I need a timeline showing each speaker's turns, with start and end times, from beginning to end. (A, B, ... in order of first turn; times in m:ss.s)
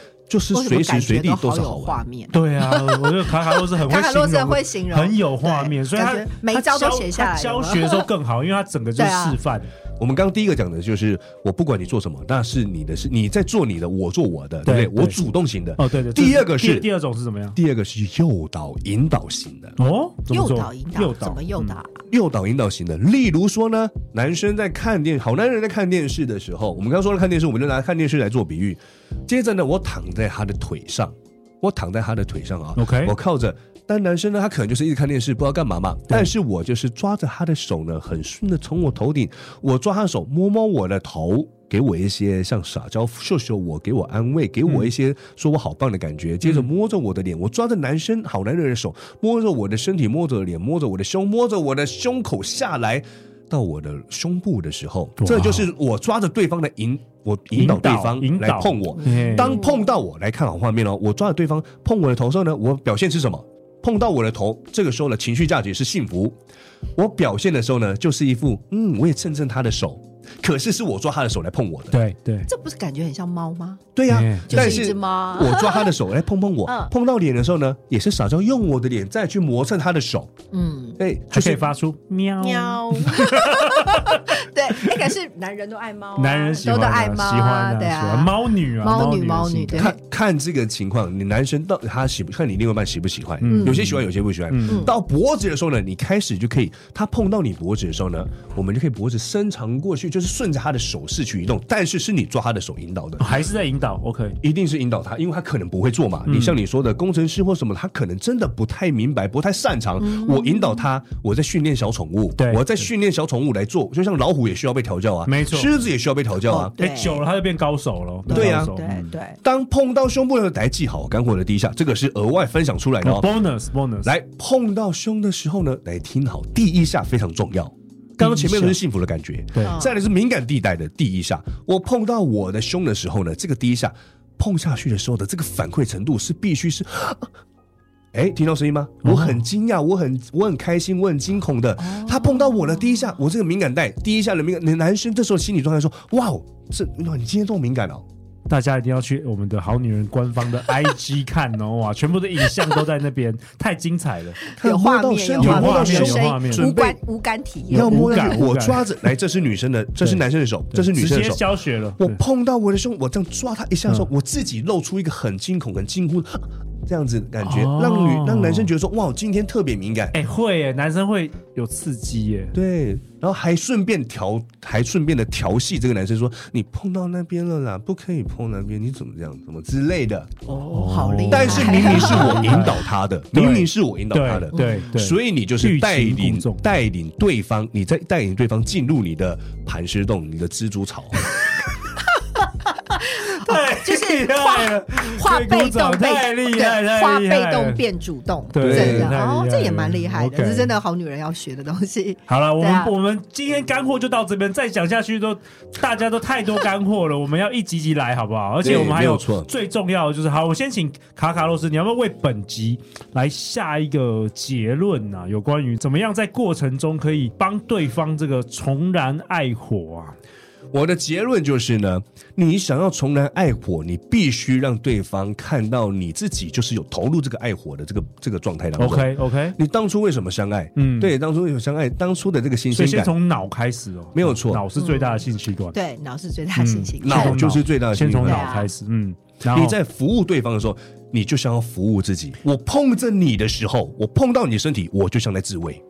0:00.3-0:02.0 A
0:00.5-0:08.1 B
0:02.3-0:09.7 C
0:09.0-0:09.4 B
0:10.0-0:16.9 A
0:14.6-0:15.2 C
0:15.8-0:17.6 C
0:17.6-0:19.8 A
0:19.8-0:21.8 C
0:20.3-0:22.0 B
0:22.1-1:06.4 A
0:32.8-0:33.2 C
0:46.4-0:46.7 C
0:55.2-0:55.7 C
0:57.5-0:59.6 C
0:59.0-0:59.8 B
1:07.0-1:12.0 A
1:11.9-1:12.5 C
1:12.5-1:13.9 B
1:14.0-1:20.3 A
1:14.1-1:14.8 C
1:14.5-1:15.9 B
1:16.7-1:16.9 B
1:20.5-1:21.0 B
1:21.0-1:21.7 A
1:21.3-1:25.0 C
1:22.4-1:30.0 B
1:26.2-1:29.9 C
1:29.8-1:43.4 A
1:33.4-1:34.9 C
1:33.5-1:33.8 B
1:34.7-1:34.9 B
1:43.2-1:44.4 C
1:44.4-1:56.8 A
1:46.3-1:46.6 C
1:50.0-1:50.9 B
1:52.4-1:52.8 C
1:55.3-1:55.7 C
1:56.5-1:57.2 B
1:56.8-1:59.1 C
1:58.3-1:59.4 B
1:58.3-1:58.8 A
1:59.4-2:03.3 A
2:03.0-2:04.1 C
2:04.0-2:17.3 A
2:08.2-2:08.8 C
2:09.6-2:10.0 B
2:18.1-2:28.0 A
2:19.0-2:19.4 C
2:21.8-2:23.0 B
2:28.5-2:34.4 C
2:34.5-2:38.4 B
2:34.6-2:37.0 A
2:35.4-2:36.7 C
2:37.7-2:38.9 C
2:37.7-2:41.4 A
2:40.7-2:42.2 C
2:42.0-2:50.2 A
2:47.4-2:48.7 C
2:50.1-2:52.6 C
2:52.5-3:00.3 A
3:00.5-3:02.7 B
3:00.7-3:02.8 C
3:01.3-3:11.3 A
3:03.3-3:06.6 C
3:04.5-3:04.9 B
3:12.9-3:17.8 C
3:12.9-3:22.9 B
3:18.5-3:20.7 C
3:18.6-3:19.2 A
3:22.3-3:40.2 C
3:28.6-3:29.5 A
3:40.7-3:53.1 A
3:48.8-3:49.6 C
3:50.8-3:51.1 C
3:52.7-3:55.8 C
3:54.1-3:54.6 A
3:54.8-3:57.6 B
3:56.6-3:59.8 C
3:57.0-3:58.6 A
3:58.2-3:58.7 B
3:59.5-4:05.8 A